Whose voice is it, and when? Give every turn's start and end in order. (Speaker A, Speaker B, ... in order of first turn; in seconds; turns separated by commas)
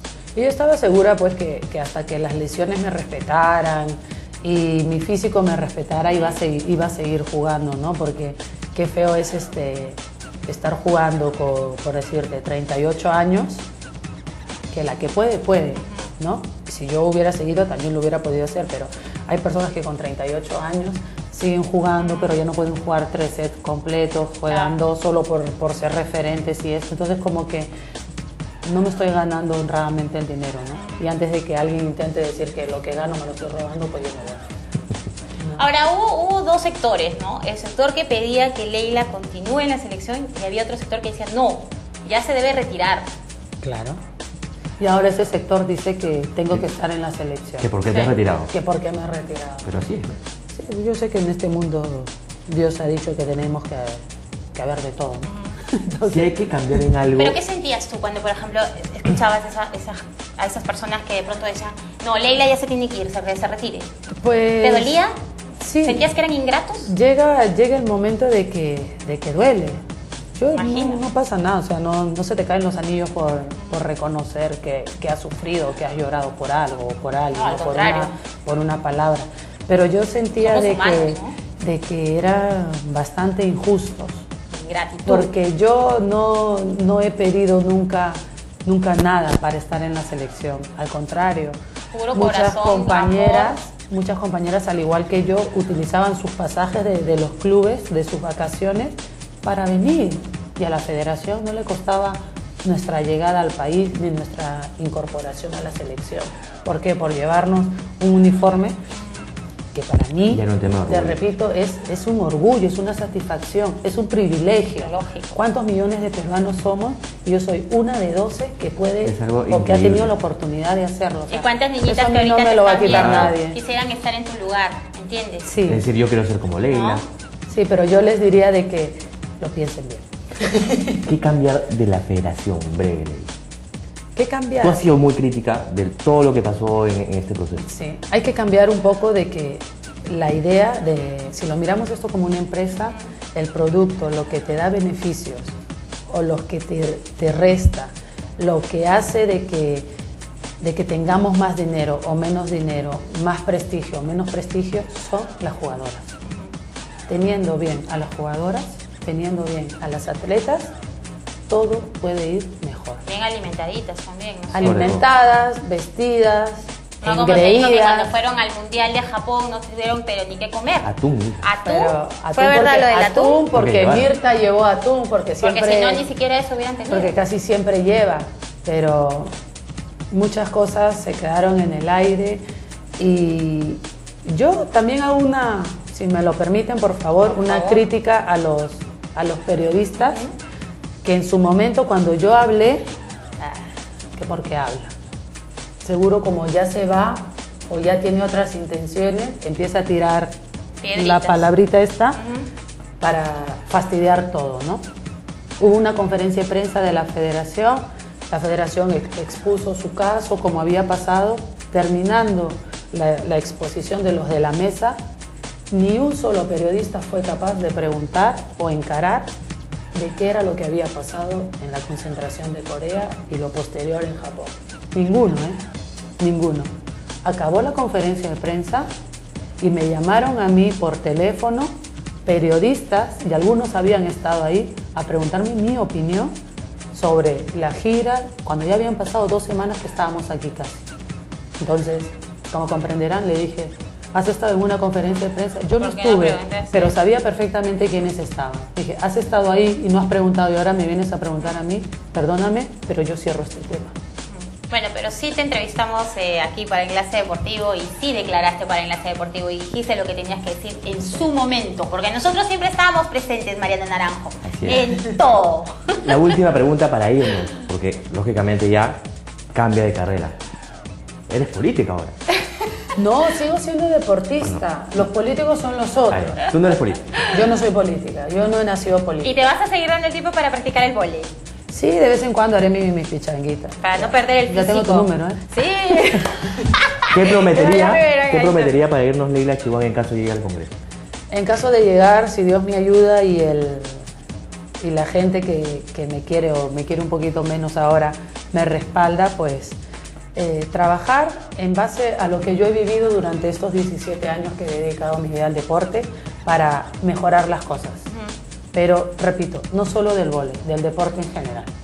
Speaker A: 0.3-13.7, Speaker B: 6.0-6.4, Speaker A: 14.7-27.7, Speaker B: 15.8-16.1, Speaker B: 22.0-22.4, Speaker B: 24.5-24.8, Speaker A: 28.6-34.4, Speaker B: 30.8-31.1, Speaker A: 35.4-35.7, Speaker B: 35.6-43.1, Speaker A: 43.6-44.0, Speaker A: 44.8-47.7, Speaker C: 47.6-48.5, Speaker B: 47.9-48.1, Speaker A: 48.4-49.7, Speaker C: 49.6-50.2, Speaker A: 50.5-54.0, Speaker A: 54.5-56.8, Speaker B: 55.3-55.6, Speaker C: 56.1-57.4, Speaker B: 57.1-63.9, Speaker A: 64.1-65.0, Speaker B: 64.6-65.1, Speaker A: 65.6-66.1, Speaker B: 65.8-66.9, Speaker A: 66.9-69.8, Speaker A: 70.3-84.3, Speaker B: 70.5-71.0, Speaker B: 73.6-73.9, Speaker B: 77.3-78.2, Speaker B: 80.4-81.4, Speaker B: 84.5-85.3, Speaker A: 85.1-91.6, Speaker B: 91.9-93.6, Speaker A: 92.1-108.8, Speaker B: 109.0-109.3, Speaker A: 109.7-123.6, Speaker C: 110.3-111.2, Speaker B: 114.8-115.3, Speaker C: 119.0-120.1, Speaker B: 121.3-125.5, Speaker C: 122.9-123.3, Speaker A: 125.5-125.8, Speaker C: 125.7-127.1, Speaker B: 126.7-127.0, Speaker A: 127.5-131.0, Speaker C: 131.0-133.3, Speaker A: 134.2-134.9, Speaker C: 134.6-137.7, Speaker A: 137.6-145.5, Speaker A: 146.1-149.9, Speaker A: 150.6-156.1, Speaker B: 156.2-156.5, Speaker A: 157.1-160.7, Speaker A: 161.5-163.0, Speaker B: 163.1-164.9, Speaker A: 164.5-168.1, Speaker C: 164.6-165.1, Speaker B: 167.0-170.9, Speaker C: 170.8-171.4, Speaker B: 171.4-173.4, Speaker A: 171.6-176.1, Speaker C: 173.5-174.1, Speaker B: 175.4-177.2, Speaker A: 176.9-179.3, Speaker A: 180.1-182.4, Speaker A: 183.0-190.2, Speaker B: 187.3-187.9, Speaker B: 190.0-190.3, Speaker A: 191.0-194.9, Speaker A: 195.8-200.3, Speaker B: 200.8-201.5, Speaker A: 200.9-202.2, Speaker B: 202.2-202.5, Speaker A: 203.0-204.8, Speaker A: 205.6-215.0, Speaker A: 215.7-219.3, Speaker A: 219.9-225.6, Speaker A: 226.2-226.7, Speaker A: 227.2-228.9, Speaker A: 229.6-236.3, Speaker A: 236.9-240.9, Speaker A: 241.6-253.9, Speaker B: 245.8-246.9, Speaker B: 254.3-266.4, Speaker C: 264.4-264.8, Speaker A: 264.9-265.2, Speaker C: 266.0-269.0, Speaker C: 269.5-270.4, Speaker C: 271.3-272.2, Speaker A: 273.0-279.5, Speaker C: 276.1-277.1, Speaker B: 277.2-277.6, Speaker B: 279.2-281.3, Speaker A: 281.7-285.4, Speaker B: 283.8-288.8, Speaker A: 286.1-286.6, Speaker C: 287.1-290.8, Speaker A: 291.3-294.1, Speaker A: 294.8-299.8, Speaker A: 300.4-308.1, Speaker B: 308.1-308.4, Speaker A: 308.7-311.7